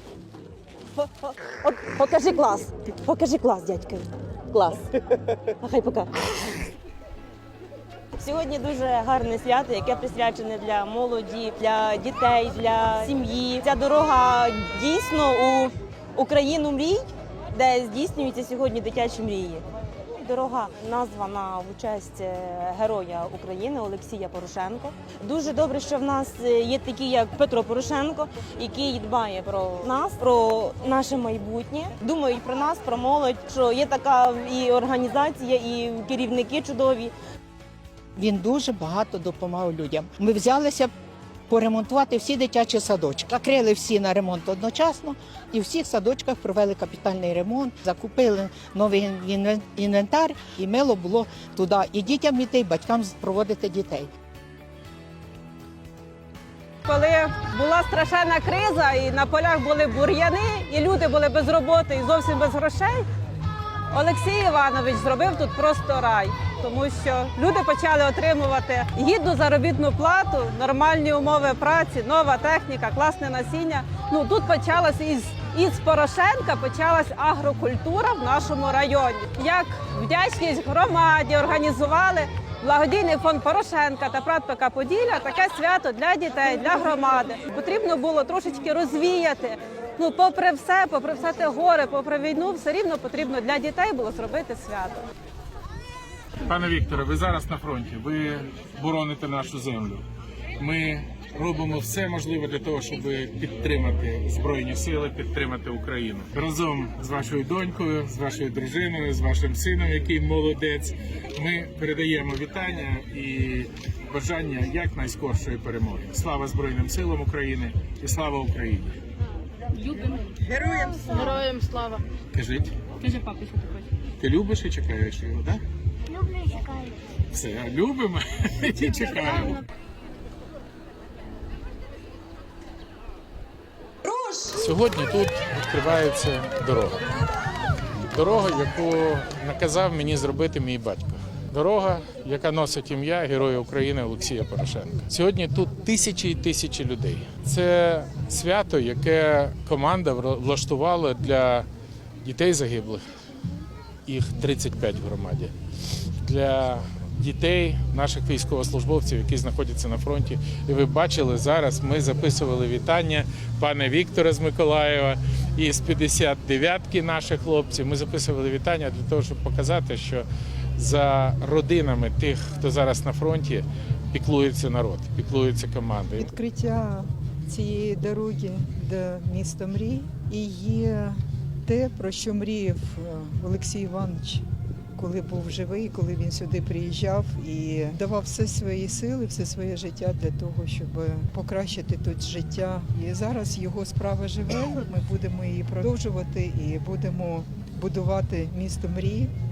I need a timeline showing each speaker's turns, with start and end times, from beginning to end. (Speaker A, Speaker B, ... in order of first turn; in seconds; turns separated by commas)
Speaker A: 1.0-5.0, Speaker A: 5.5-6.5, Speaker A: 8.1-37.1, Speaker B: 38.2-40.9, Speaker B: 41.5-54.1, Speaker C: 56.9-63.0, Speaker C: 63.9-95.1, Speaker D: 96.4-100.0, Speaker D: 100.6-119.0, Speaker E: 119.8-122.0, Speaker D: 122.3-123.4, Speaker E: 123.2-123.8, Speaker D: 124.2-125.6, Speaker D: 127.3-129.6, Speaker D: 134.4-137.0, Speaker D: 138.1-151.7, Speaker D: 152.2-153.1, Speaker D: 154.1-155.5, Speaker D: 156.2-176.3, Speaker F: 176.2-184.4, Speaker F: 185.0-199.3